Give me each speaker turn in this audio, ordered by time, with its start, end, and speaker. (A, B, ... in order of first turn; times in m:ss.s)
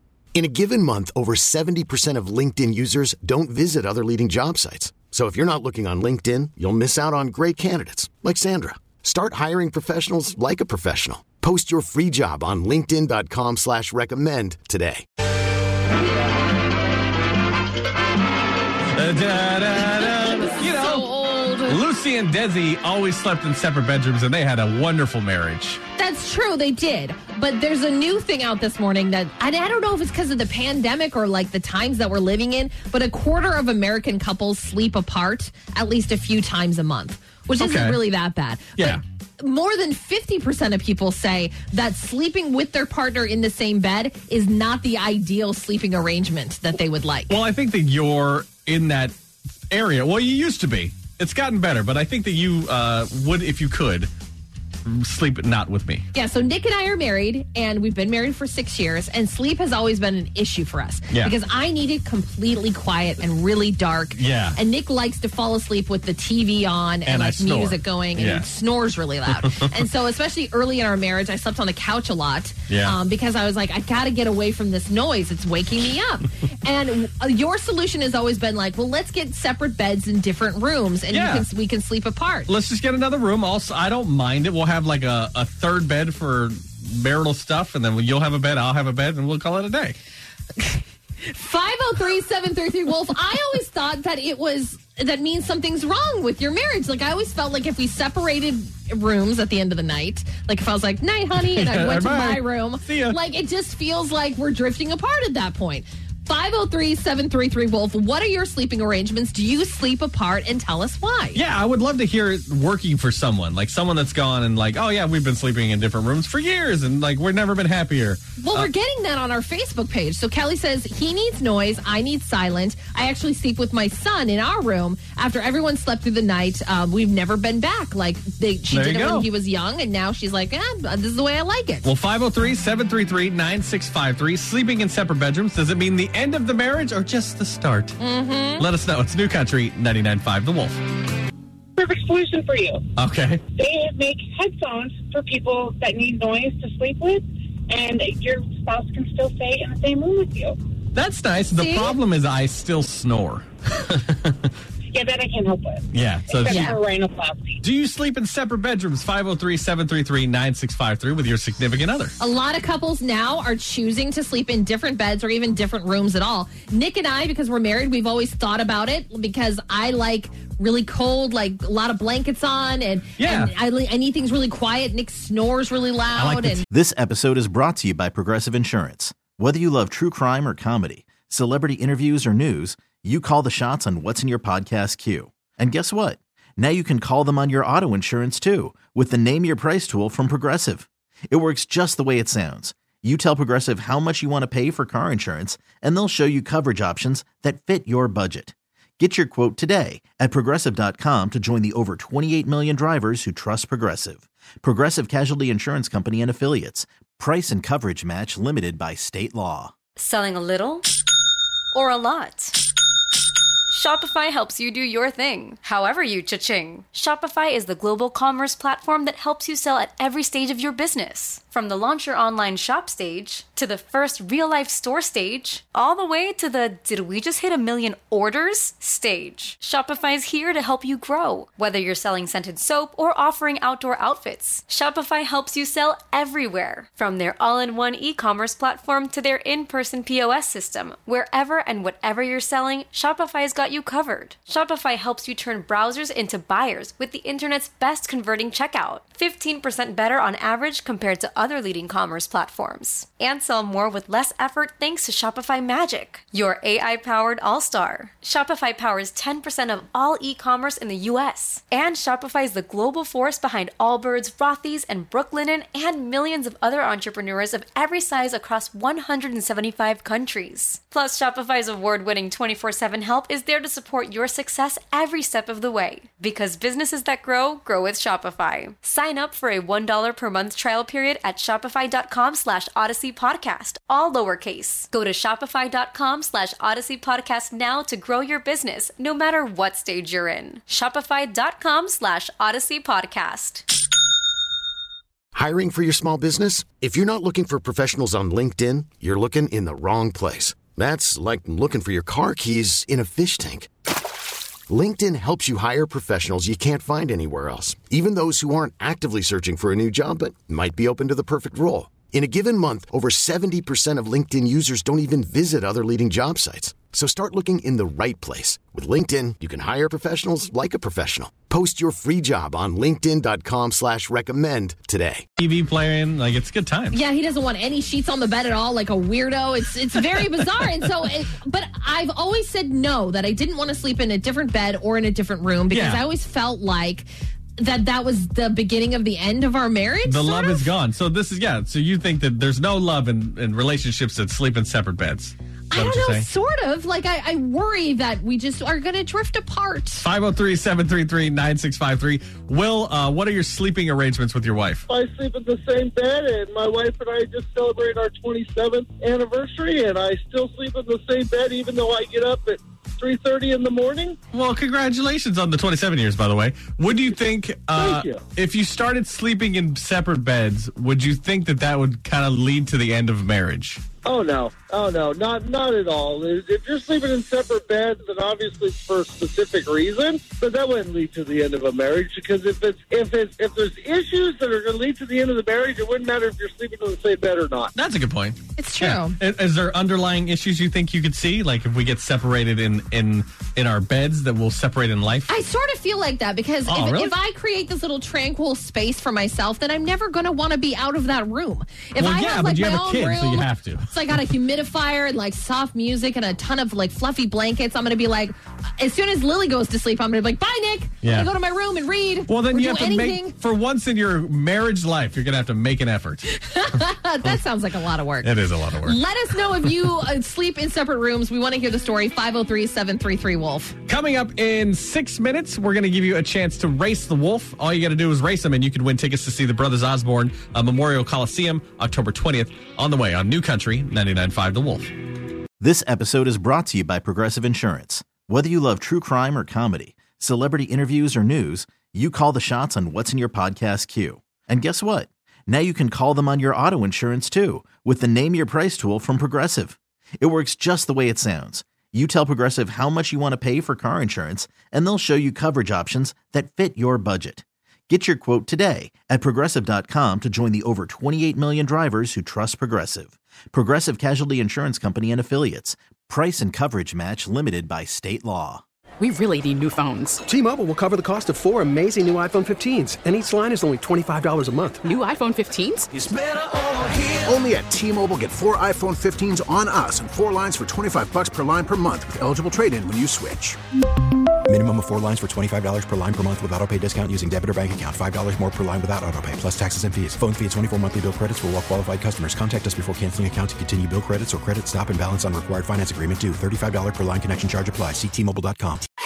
0:00.3-0:15.0 A
0:18.9-0:21.1 B
0:20.0-0:21.8 C
0:21.6-0:25.8 B
0:26.0-0:47.3 C
0:37.6-0:38.0 B
0:47.3-0:49.1 B
0:49.7-0:54.1 B
0:54.8-0:56.0 B
0:56.1-1:22.5 C
1:04.1-1:04.6 B
1:07.0-1:08.5 B
1:09.4-1:09.7 B
1:12.7-1:13.0 B
1:21.1-1:21.5 B
1:22.5-1:30.0 B
1:30.6-1:51.4 C
1:41.4-1:43.2 B
1:51.3-1:58.7 B
1:58.4-2:11.9 C
2:08.7-2:09.3 B
2:11.8-2:18.0 B
2:18.0-2:18.6 C
2:18.6-2:20.8 B
2:21.8-2:22.8 D
2:23.0-2:23.4 B
2:23.5-2:30.6 D
2:30.9-2:34.5 B
2:31.5-2:32.0 C
2:34.9-2:37.6 D
2:35.9-2:36.7 B
2:36.4-2:36.8 C
2:37.6-2:42.1 B
2:42.2-2:56.6 C
2:53.2-2:53.5 B
2:56.1-2:56.6 B
2:56.7-3:29.7 E
3:30.0-3:30.9 F
3:31.7-3:32.6 F
3:33.7-4:53.6 F
4:55.3-5:03.7 A
5:04.7-5:25.2 A
5:25.4-5:27.0 B
5:26.9-5:37.1 C
5:35.7-5:36.0 B
5:37.6-5:40.7 C
5:40.0-5:46.3 B
5:45.7-5:50.0 C
5:50.0-5:54.8 B
5:54.9-6:04.2 G
6:04.3-6:13.8 B
6:07.7-6:08.2 G
6:14.0-6:27.7 G
6:27.7-6:35.3 B
6:28.6-6:29.2 C
6:35.3-6:53.3 C
6:36.6-6:37.1 B
6:42.0-6:44.3 B
6:51.0-6:51.3 B
6:52.3-6:56.3 B
6:56.4-7:03.8 C
6:58.2-6:59.0 B
7:03.9-7:14.9 B
7:15.6-7:48.6 E
7:49.0-7:50.3 H
7:50.3-7:54.8 I
7:54.8-7:55.9 H
7:55.9-8:03.6 J
8:04.5-8:18.8 K